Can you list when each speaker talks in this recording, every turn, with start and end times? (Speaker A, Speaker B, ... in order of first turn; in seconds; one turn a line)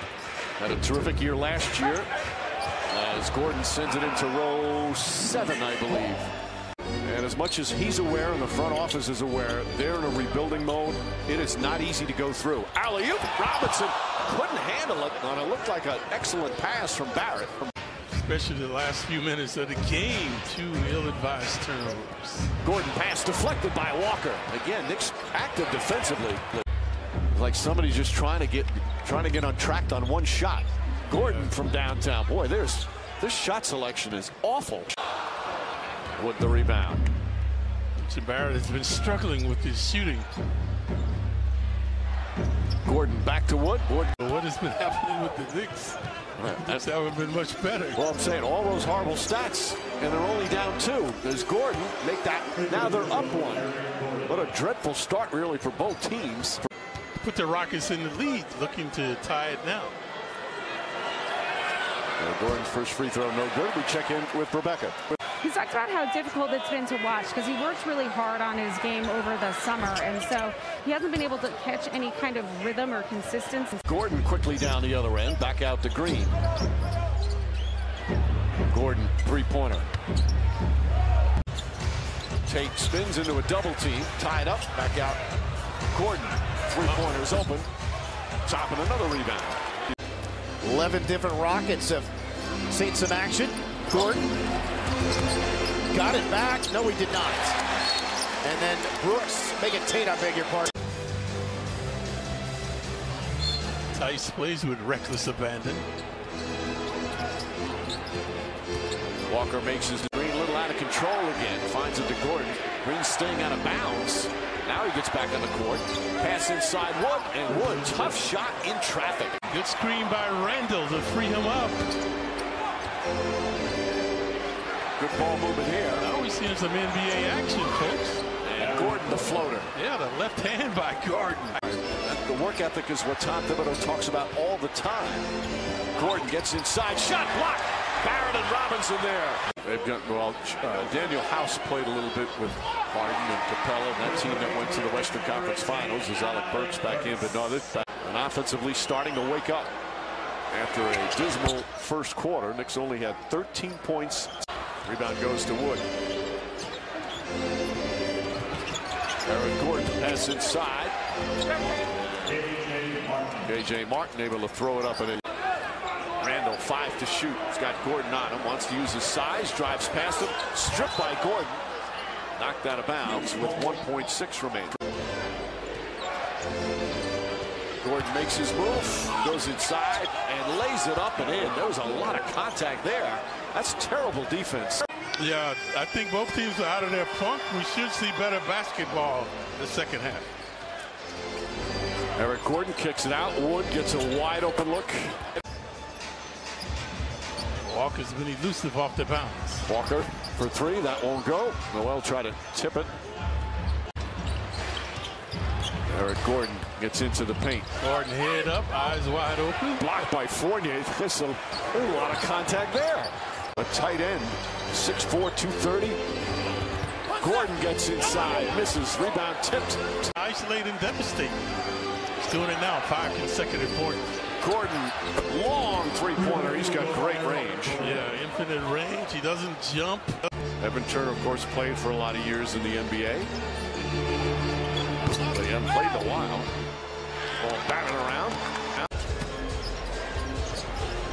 Speaker A: 0.6-2.1
Speaker A: 2.9-6.3
Speaker A: 7.0-17.7
Speaker B: 18.1-22.5
Speaker A: 22.6-26.5
Speaker A: 27.3-34.9
Speaker B: 31.2-31.5
Speaker A: 36.1-37.0
Speaker B: 38.0-40.3
Speaker A: 42.8-44.1
Speaker B: 44.2-46.0
Speaker A: 46.4-46.9
Speaker B: 46.6-48.0
Speaker A: 47.9-53.7
Speaker A: 54.2-56.6
Speaker B: 57.2-59.9
Speaker A: 62.2-65.0
Speaker C: 65.4-73.8
Speaker A: 73.8-76.3
Speaker A: 78.7-79.9
Speaker A: 82.4-85.2
Speaker A: 85.9-87.7
Speaker A: 88.4-89.6
Speaker D: 90.6-92.1
Speaker D: 92.7-94.3
Speaker D: 95.9-97.6
Speaker D: 98.4-100.7
Speaker B: 103.9-105.9
Speaker A: 109.3-119.4
Speaker B: 119.5-121.9
Speaker A: 125.0-126.1
Speaker B: 126.0-128.2
Speaker A: 128.4-129.7
Speaker B: 129.7-131.8
Speaker A: 131.9-135.3
Speaker A: 135.9-149.7
Speaker A: 150.5-154.3
Speaker A: 154.8-155.8
Speaker A: 159.2-160.9
Speaker A: 163.4-165.2
Speaker A: 166.2-171.6
Speaker A: 172.4-174.8
Speaker A: 177.8-184.8
Speaker B: 185.2-190.3
Speaker A: 192.2-195.2
Speaker B: 197.6-199.7
Speaker A: 199.7-202.9
Speaker A: 205.9-207.7
Speaker B: 207.8-209.8
Speaker A: 209.8-216.0
Speaker A: 217.2-220.1
Speaker B: 220.2-221.4
Speaker B: 222.2-224.1
Speaker A: 224.4-227.8
Speaker B: 227.8-230.3
Speaker A: 230.6-233.3
Speaker A: 235.2-236.5
Speaker A: 237.4-238.4